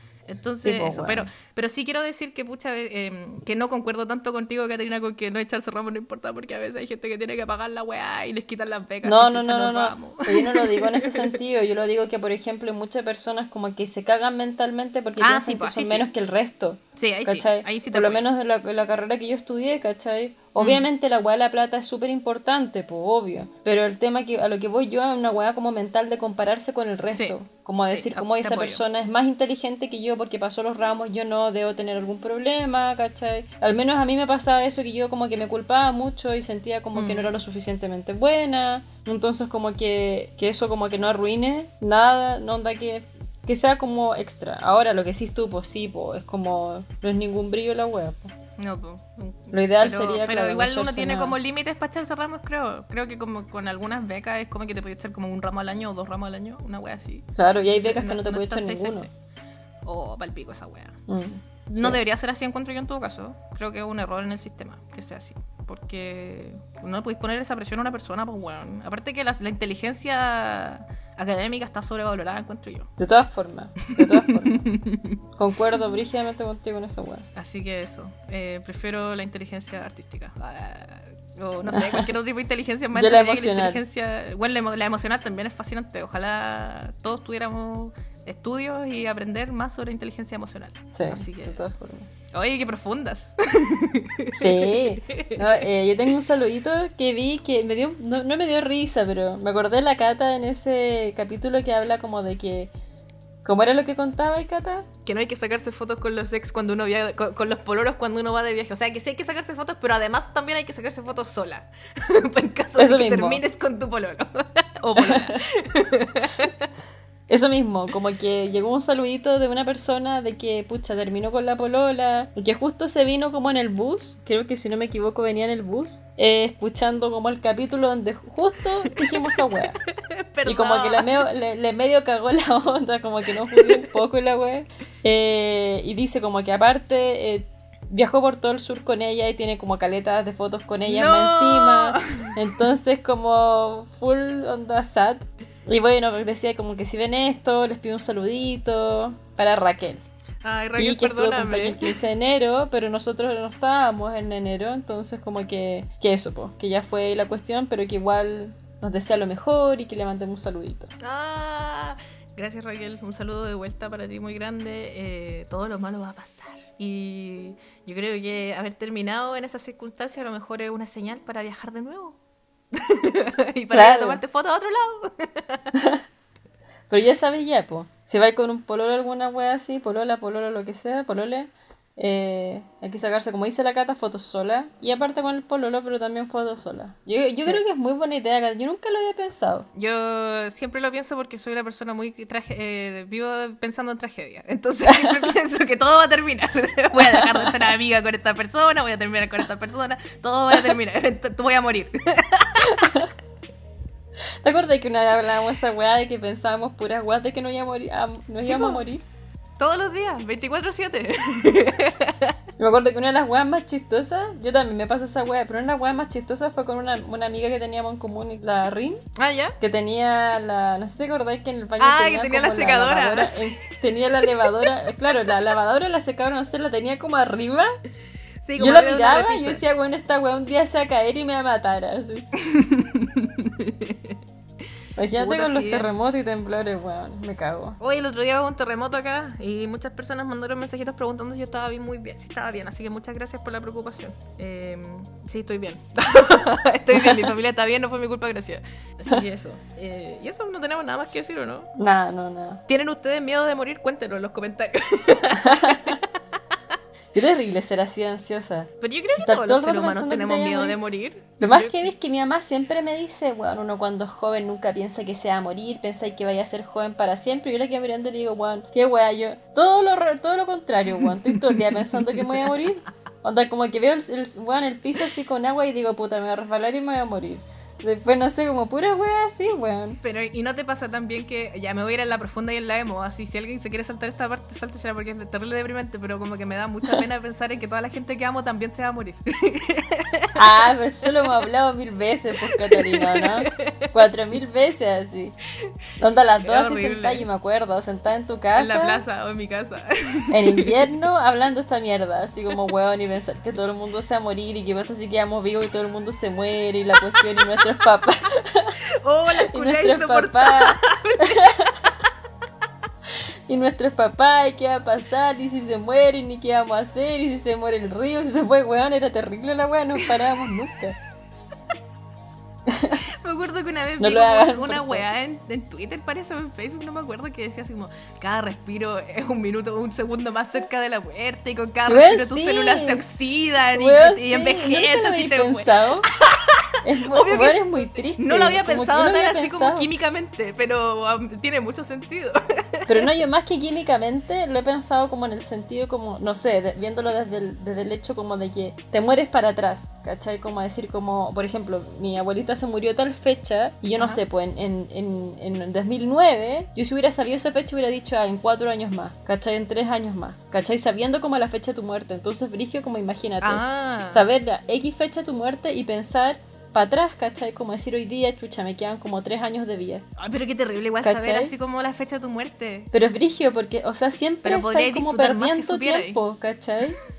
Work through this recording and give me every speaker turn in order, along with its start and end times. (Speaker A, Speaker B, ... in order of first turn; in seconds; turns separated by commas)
Speaker A: 0.3-11.3, Speaker B: 0.6-1.3, Speaker B: 9.0-48.3, Speaker A: 15.2-16.1, Speaker A: 17.0-18.2, Speaker A: 20.6-20.8, Speaker A: 27.1-27.4, Speaker A: 27.9-28.8, Speaker A: 36.9-37.4, Speaker A: 48.6-59.1, Speaker B: 49.5-51.4, Speaker B: 57.4-59.1, Speaker A: 59.9-61.0, Speaker B: 61.1-62.0, Speaker A: 61.7-72.9, Speaker B: 73.0-74.7, Speaker A: 73.9-75.2, Speaker B: 75.4-77.3, Speaker A: 77.3-91.7, Speaker B: 81.7-82.1, Speaker B: 82.9-83.8, Speaker B: 90.9-92.1, Speaker A: 92.3-95.7, Speaker B: 94.3-102.7, Speaker B: 103.5-104.9, Speaker A: 105.0-116.7, Speaker B: 112.8-113.4, Speaker B: 115.0-115.3, Speaker B: 117.3-129.8, Speaker A: 128.9-131.2, Speaker B: 130.5-150.0, Speaker A: 133.5-133.9, Speaker A: 140.9-142.4, Speaker A: 150.4-152.0, Speaker B: 150.8-160.9, Speaker A: 161.0-172.2, Speaker A: 172.7-175.7, Speaker B: 173.7-174.2, Speaker B: 175.7-176.0, Speaker B: 176.9-189.7, Speaker A: 189.8-202.9, Speaker B: 194.9-195.3, Speaker B: 197.0-197.6, Speaker B: 202.7-203.1, Speaker B: 204.4-209.0, Speaker A: 208.4-208.8, Speaker A: 209.6-212.4, Speaker B: 212.6-219.0, Speaker A: 219.2-219.6, Speaker B: 219.6-227.7, Speaker A: 221.8-224.7, Speaker A: 228.4-229.6, Speaker B: 228.6-232.2, Speaker A: 232.4-234.2, Speaker B: 235.0-237.8, Speaker A: 235.2-235.9, Speaker A: 237.8-251.7, Speaker B: 247.0-247.3, Speaker B: 251.8-252.6, Speaker A: 252.7-256.1, Speaker B: 255.4-256.0, Speaker B: 257.1-260.8, Speaker A: 258.8-261.9, Speaker B: 261.4-280.0, Speaker A: 271.0-272.6, Speaker A: 280.0-290.4, Speaker B: 290.4-295.4, Speaker A: 292.4-293.9, Speaker B: 296.0-299.0, Speaker A: 296.4-297.3, Speaker A: 298.6-300.8, Speaker B: 300.3-308.8, Speaker A: 309.0-311.5, Speaker B: 309.5-311.8, Speaker B: 313.5-321.0, Speaker B: 322.7-323.0, Speaker A: 322.9-343.1, Speaker B: 324.0-325.1, Speaker B: 331.9-333.0, Speaker B: 333.7-336.1, Speaker B: 336.8-339.9, Speaker B: 342.9-370.1, Speaker A: 363.4-364.3, Speaker A: 370.2-372.9, Speaker B: 371.0-371.5, Speaker B: 372.9-377.0, Speaker A: 374.4-376.2